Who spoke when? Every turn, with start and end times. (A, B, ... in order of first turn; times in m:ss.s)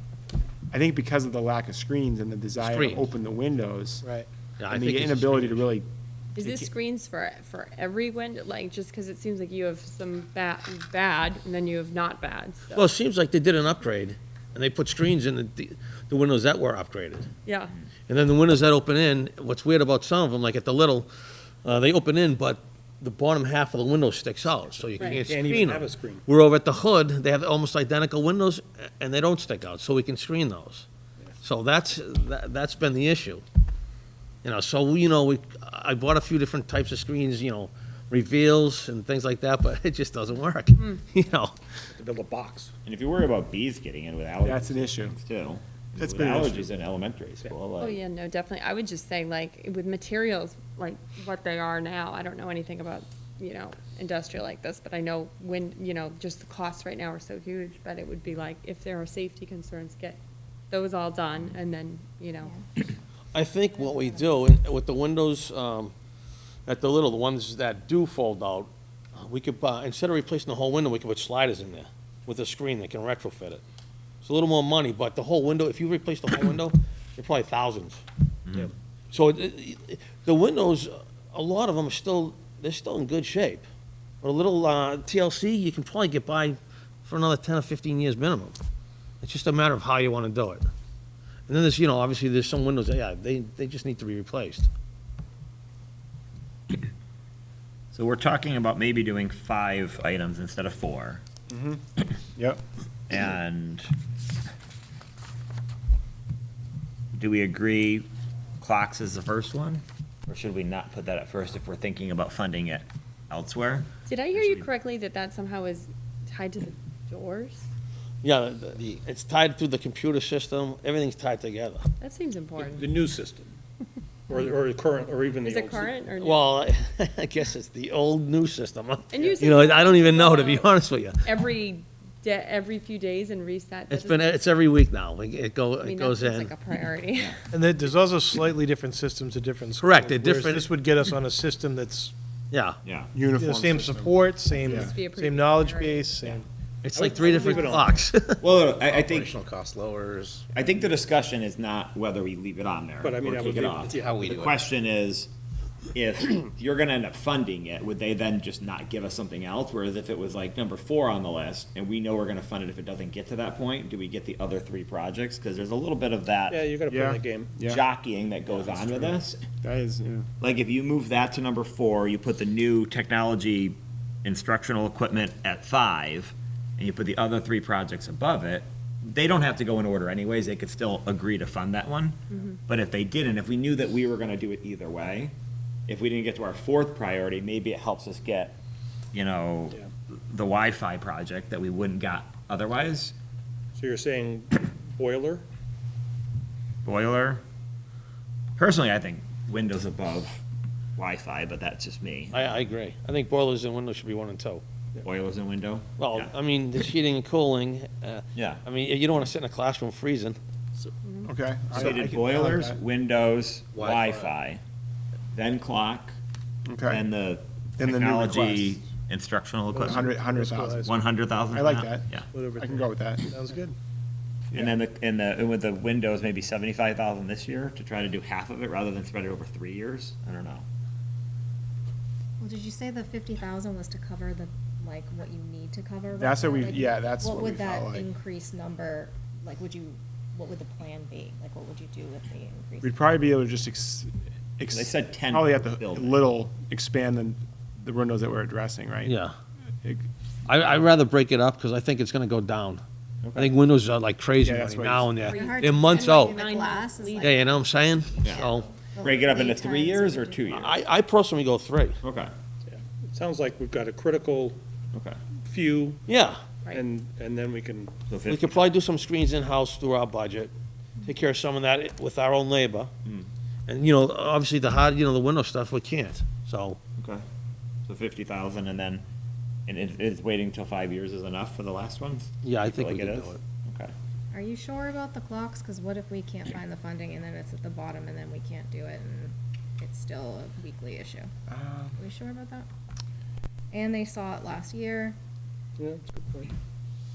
0:00.7-0:04.0 A
0:02.6-0:03.1 B
0:04.0-0:04.3 C
0:04.6-0:05.7 B
0:04.7-0:05.9 A
0:06.4-0:12.9 D
0:12.7-0:17.3 B
0:17.5-0:17.8 D
0:18.1-0:21.1 B
0:21.6-0:30.9 B
0:25.0-0:26.2 E
0:31.4-0:33.4 B
0:34.4-0:41.6 B
0:40.8-0:41.0 D
0:41.9-0:42.7 E
0:42.8-0:48.0 F
0:44.4-0:45.1 A
0:46.0-0:46.7 A
0:47.8-1:00.2 D
1:00.7-1:02.5 D
1:03.3-1:05.9 B
1:03.8-1:04.4 G
1:06.7-1:13.6 B
1:14.2-1:18.0 B
1:19.1-1:23.6 B
1:24.2-1:28.6 B
1:29.2-1:30.6 B
1:31.5-1:34.7 B
1:37.9-1:41.2 F
1:41.5-1:41.8 A
1:42.4-1:42.6 A
1:43.1-1:43.9 F
1:47.2-1:48.1 F
1:48.6-1:54.7 F
1:54.1-1:57.7 D
1:58.2-2:01.8 B
1:58.8-1:59.0 H
2:02.0-2:03.0 D
2:02.6-2:03.5 E
2:04.3-2:06.0 E
2:05.4-2:06.5 D
2:06.2-2:11.3 B
2:09.1-2:14.4 D
2:13.9-2:16.5 B
2:15.8-2:17.4 D
2:17.5-2:22.1 C
2:19.8-2:20.8 B
2:22.5-2:22.8 B
2:22.8-2:23.1 F
2:23.1-2:25.0 A
2:23.2-2:26.5 C
2:24.5-2:26.1 D
2:26.8-2:28.4 B
2:27.0-2:27.9 E
2:27.0-2:28.0 D
2:28.4-2:29.4 F
2:28.8-2:30.4 H
2:30.5-2:35.3 F
2:33.0-2:34.2 E
2:33.4-2:34.6 H
2:36.0-2:46.7 F
2:46.5-2:47.5 E
2:46.9-2:47.8 A
2:47.7-2:49.4 F
2:48.5-2:49.1 E
2:49.6-2:50.3 A
2:50.4-3:05.3 F
3:05.9-3:08.6 F
3:09.1-3:09.8 F
3:10.3-3:13.2 F
3:13.8-3:15.4 E
3:16.8-3:17.4 F
3:18.6-3:20.4 F
3:21.0-3:22.6 F
3:22.3-3:24.6 B
3:25.0-3:26.3 F
3:26.0-3:30.4 B
3:28.4-3:28.6 F
3:31.0-3:31.3 D
3:31.2-3:32.8 A
3:31.7-3:34.6 F
3:33.8-3:34.3 H
3:35.3-3:36.2 F
3:36.7-3:37.0 A
3:36.9-3:40.1 F
3:37.8-3:38.8 A
3:39.7-3:40.9 E
3:39.8-3:40.9 A
3:40.2-3:40.7 C
3:40.8-3:42.3 F
3:41.5-3:43.4 A
3:42.3-3:43.8 C
3:43.3-3:43.6 E
3:44.5-3:50.6 F
3:52.4-4:03.2 G
3:56.2-3:58.1 A
4:02.8-4:09.1 A
4:04.7-4:06.3 F
4:09.0-4:09.3 B
4:10.5-4:12.8 B
4:13.2-4:13.5 F
4:13.4-4:16.4 B
4:14.4-4:15.1 A
4:15.2-4:20.4 G
4:15.2-4:17.6 D
4:17.2-4:18.7 B
4:18.2-4:20.8 F
4:20.5-4:22.0 B
4:22.0-4:22.3 F
4:22.6-4:24.6 E
4:25.5-4:26.0 E
4:26.1-4:26.4 B
4:26.7-4:28.0 E
4:28.1-4:28.6 F
4:28.3-4:30.5 B
4:31.1-4:32.9 B
4:33.7-4:36.8 B
4:37.0-4:37.2 F
4:37.9-4:39.0 F
4:39.7-4:43.9 F
4:42.4-4:43.4 B
4:44.3-4:51.3 G
4:51.5-4:52.0 A
4:52.0-4:52.7 G
4:53.7-4:55.2 G
4:55.8-4:56.5 E